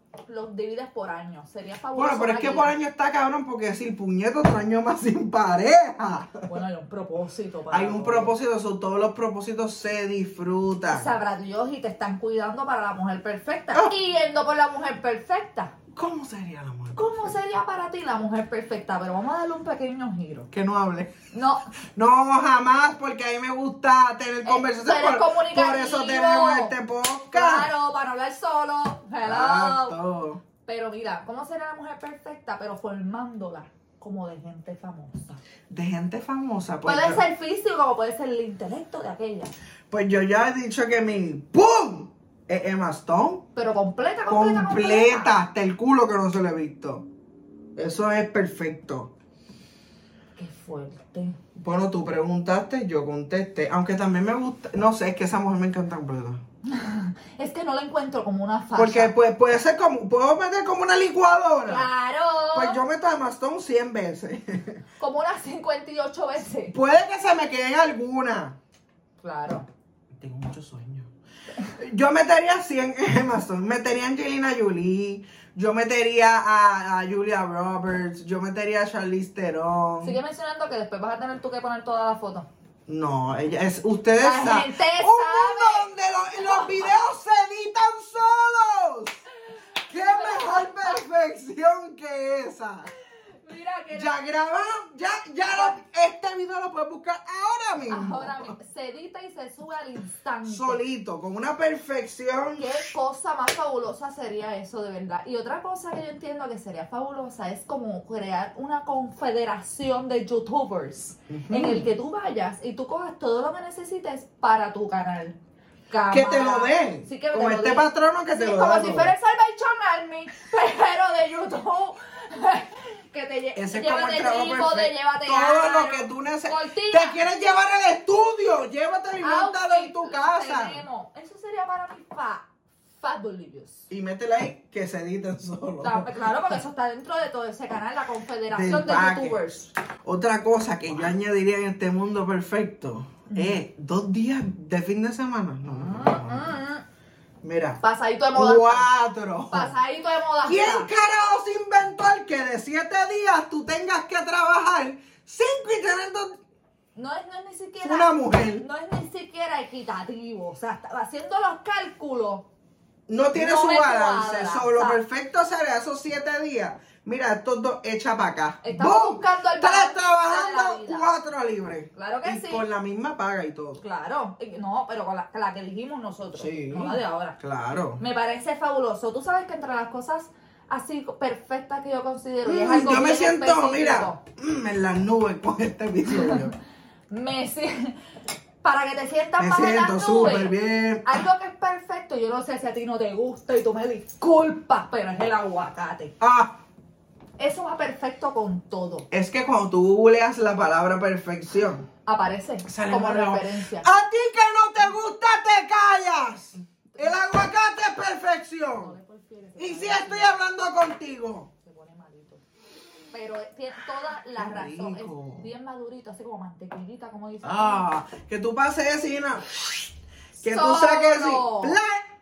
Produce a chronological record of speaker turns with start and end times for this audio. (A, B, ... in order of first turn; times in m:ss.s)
0:00.3-0:02.7 A
0:01.9-0:06.5 B
0:06.4-0:08.4 A
0:07.7-0:11.1 B
0:10.9-0:15.8 A
0:15.9-0:17.4 B
0:17.0-0:20.5 A
0:20.5-0:21.2 B
0:21.3-0:21.7 A
0:21.9-0:27.7 B
0:24.4-0:26.8 A
0:27.3-0:30.0 A
0:29.2-0:30.4 B
0:30.6-0:35.4 A
0:35.7-0:37.2 B
0:36.8-0:39.5 A
0:39.9-0:43.4 B
0:43.5-0:45.4 A
0:44.3-0:47.0 B
0:47.8-0:49.1 B
0:50.4-0:51.4 A
0:51.6-0:56.4 B
0:56.6-0:59.1 A
0:58.8-1:01.9 B
1:01.6-1:02.8 A
1:02.5-1:04.8 B
1:05.0-1:06.8 A
1:06.7-1:08.6 B
1:09.2-1:09.7 A
1:10.2-1:11.1 B
1:11.8-1:20.2 B
1:20.0-1:22.5 A
1:22.9-1:29.2 B
1:24.2-1:26.9 A
1:29.6-1:31.0 A
1:29.9-1:32.9 B
1:33.4-1:34.2 A
1:33.9-1:38.5 B
1:35.5-1:35.8 A
1:37.9-1:40.8 A
1:40.4-1:42.7 B
1:42.6-1:55.4 A
1:51.3-1:51.8 B
1:55.9-2:07.3 A
1:56.1-1:59.1 B
2:03.5-2:10.8 B
2:09.2-2:12.5 A
2:13.0-2:13.9 A
2:13.9-2:16.1 B
2:15.8-2:19.7 A
2:18.5-2:19.4 B
2:20.0-2:26.6 B
2:23.3-2:23.6 A
2:25.7-2:26.8 A
2:27.4-2:27.8 B
2:27.8-2:28.9 A
2:28.4-2:29.8 B
2:29.5-2:30.9 A
2:30.4-2:36.4 B
2:36.9-2:42.5 A
2:37.8-2:38.6 B
2:43.1-2:53.8 B
2:43.3-2:45.0 A
2:48.6-2:51.1 A
2:51.9-2:52.6 A
2:53.8-2:57.4 A
2:56.4-2:58.0 B
2:58.0-3:04.2 A
3:02.4-3:06.5 B
3:06.1-3:06.5 A
3:07.1-3:08.0 A
3:08.6-3:10.5 A
3:09.4-3:11.1 B
3:11.0-3:16.1 A
3:16.2-3:16.6 B
3:17.4-3:19.1 A
3:19.1-3:21.9 B
3:22.0-3:23.9 A
3:22.6-3:28.9 B
3:27.0-3:27.3 A
3:28.8-3:30.4 A
3:29.6-3:31.5 B
3:31.6-3:32.4 A
3:33.1-3:37.9 A
3:34.4-3:35.5 B
3:37.4-3:39.9 B
3:40.4-3:42.0 B
3:40.4-3:41.8 A